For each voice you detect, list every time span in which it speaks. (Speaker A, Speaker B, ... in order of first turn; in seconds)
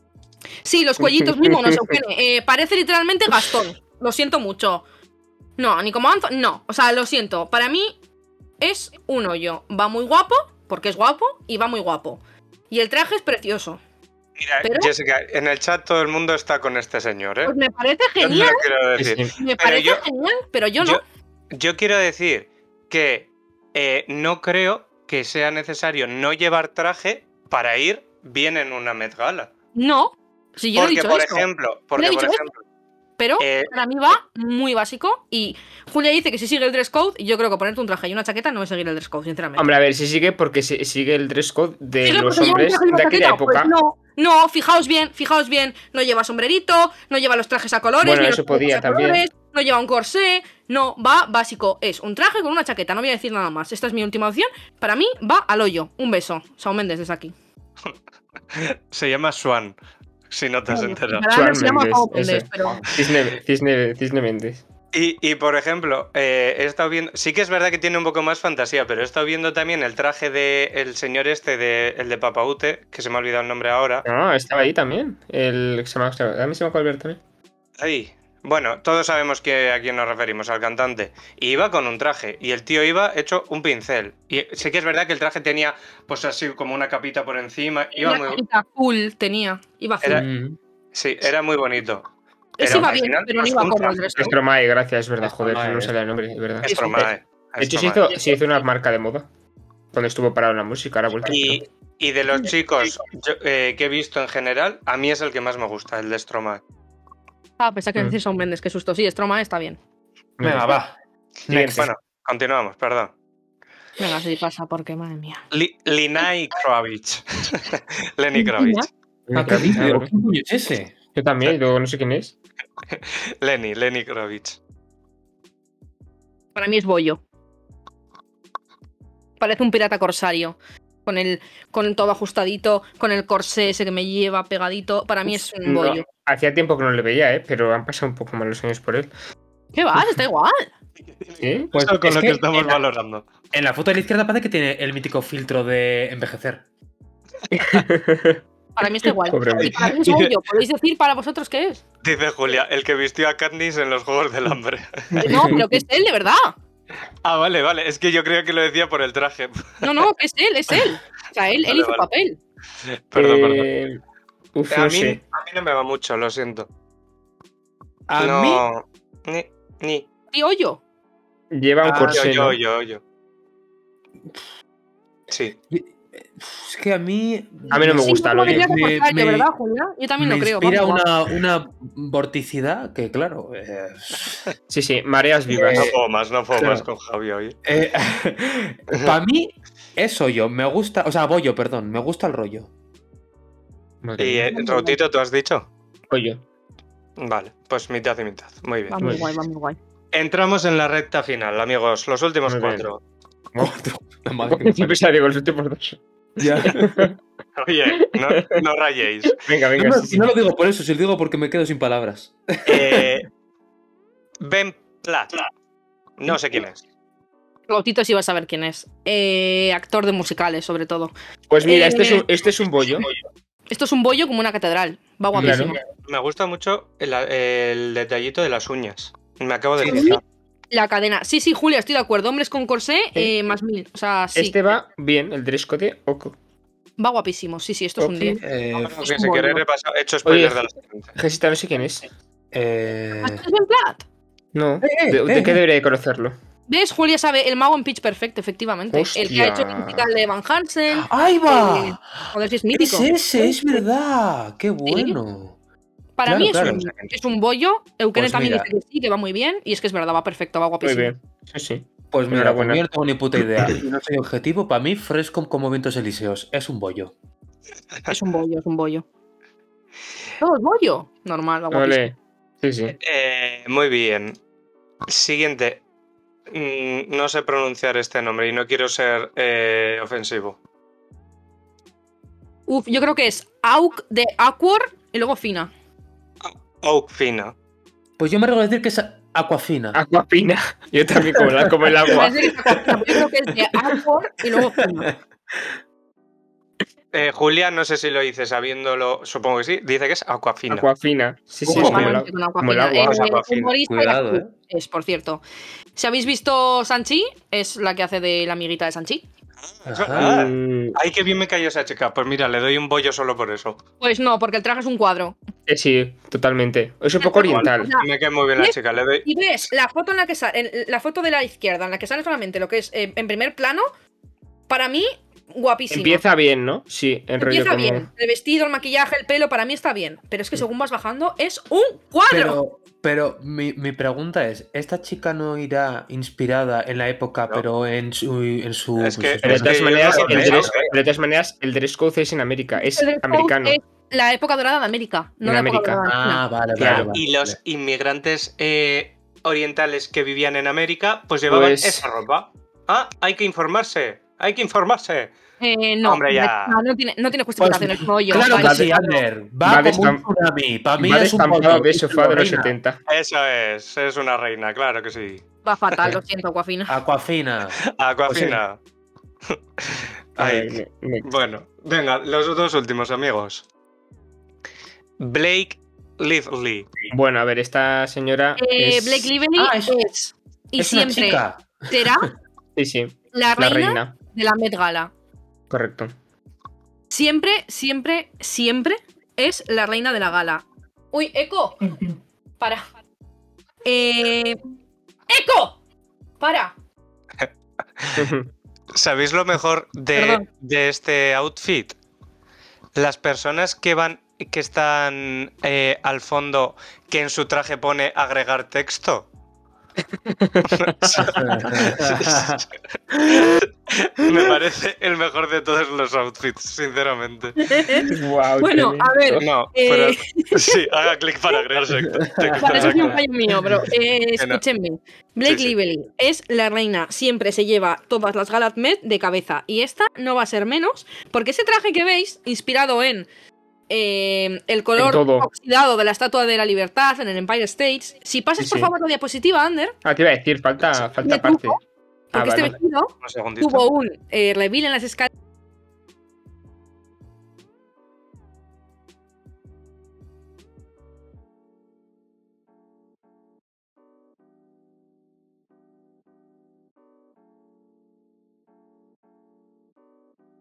Speaker A: 0.6-4.8, 5.6-8.0, 8.6-13.8, 14.6-14.9, 17.4-18.6, 19.4-21.0, 29.8-31.4, 32.0-32.4, 33.2-39.7, 42.0-57.3, 60.7-62.8, 88.0-90.3, 92.6-94.3, 107.6-109.8, 114.0-115.5, 118.3-118.9, 126.5-127.2, 129.4-136.1, 139.8-140.7, 148.8-151.8, 155.2-156.5, 159.8-162.4, 170.3-170.8, 177.7-181.1, 194.5-195.0, 198.9-199.8, 217.7-221.1, 221.6-222.3, 223.7-225.8, 229.8-230.2, 230.7-234.6, 237.0-238.4, 243.2-244.0, 246.7-253.8, 254.9-255.2, 256.2-261.1, 268.1-269.1, 270.4-272.1, 282.7-285.7, 292.1-295.1, 301.7-305.4, 306.0-309.2, 314.0-315.4, 317.2-323.9, 324.7-326.2, 327.4-332.6, 342.8-346.4, 355.6-359.2, 365.6-366.9, 378.6-382.3, 383.3-385.1, 387.1-392.1, 393.9-394.6, 395.3-395.8, 396.4-396.7, 400.2-400.4, 417.6-421.1, 422.6-433.3, 433.9-440.0, 441.2-441.8, 442.3-445.3
Speaker B: 1.0-2.0, 19.0-19.3, 39.6-43.7, 48.0-49.2, 61.3-64.6, 74.0-77.2, 94.2-97.1, 97.6-99.3, 99.9-101.6, 110.4-110.8, 111.5-111.9, 119.3-120.1, 121.2-122.3, 135.6-139.1, 141.4-141.7, 147.5-148.4, 149.1-150.0, 155.1-155.8, 163.2-164.0, 164.6-165.2, 171.5-172.6, 177.7-178.9, 184.7-185.9, 194.0-194.5, 196.1-196.4, 199.0-199.3, 202.5-202.9, 204.5-207.2, 207.9-208.6, 209.3-210.3, 221.5-223.1, 225.3-225.8, 234.3-236.4, 238.0-238.4, 240.2-240.6, 241.2-242.1, 244.5-246.4, 248.9-250.1, 260.8-262.9, 271.7-273.0, 289.9-292.5, 300.7-303.1, 310.1-311.0, 315.7-317.9, 325.9-328.1, 339.4-343.8, 345.4-346.0, 346.8-347.2, 351.5-352.1, 358.4-358.9, 359.6-360.2, 361.0-363.0, 370.4-371.3, 377.1-379.3, 382.8-384.1, 385.7-386.1, 398.2-398.5, 410.2-411.6, 418.1-419.4, 435.0-435.5, 438.6-438.9, 440.0-441.8, 442.3-442.8
Speaker C: 14.4-17.5, 18.2-20.1, 21.5-29.5, 30.8-32.6, 33.4-33.7, 58.5-59.8, 60.3-61.3, 64.9-74.0, 77.8-88.4, 90.9-92.1, 92.6-94.3, 96.6-98.2, 101.3-106.6, 111.5-113.1, 115.5-118.9, 122.9-124.6, 141.2-143.3, 149.9-150.3, 152.0-155.2, 157.2-160.0, 161.7-162.1, 162.8-163.7, 164.7-166.7, 168.2-170.1, 172.0-173.0, 175.3-175.6, 185.5-187.6, 194.2-195.7, 197.2-199.0, 200.1-203.0, 207.6-209.4, 212.7-213.3, 214.4-215.3, 216.2-216.8, 226.0-230.2, 238.8-241.2, 273.0-274.4, 275.1-275.8, 276.5-280.6, 286.4-287.6, 297.1-300.9, 303.0-303.7, 309.7-313.8, 317.4-319.3, 339.0-340.9, 346.8-355.3, 356.0-356.8, 363.1-365.4, 367.8-368.8, 369.5-373.6, 375.2-376.9, 397.4-398.3, 398.9-402.0, 402.9-409.3, 410.7-417.6, 419.4-423.2, 424.4-424.6, 425.4-425.7, 443.2-443.9
Speaker D: 90.1-90.6, 95.2-95.9, 110.4-111.0, 111.5-111.9, 119.3-120.9, 141.7-142.8, 143.5-146.7, 168.1-168.7, 171.8-172.2, 175.7-179.5, 180.2-184.5, 185.5-186.0, 187.7-192.7, 203.6-205.0, 206.4-207.1, 209.8-213.1, 225.4-225.8, 229.8-230.2, 238.3-239.6, 242.5-243.4, 244.8-245.6, 250.9-252.1, 252.7-255.6, 256.3-256.9, 258.1-258.7, 262.1-267.1, 288.2-290.0, 291.3-292.1, 292.7-293.1, 294.6-295.6, 301.7-302.2, 303.9-304.5, 309.9-310.4, 332.3-340.9, 346.1-347.6, 357.6-362.7, 366.9-368.6, 379.6-380.0, 380.8-382.3, 411.1-412.6, 422.1-423.9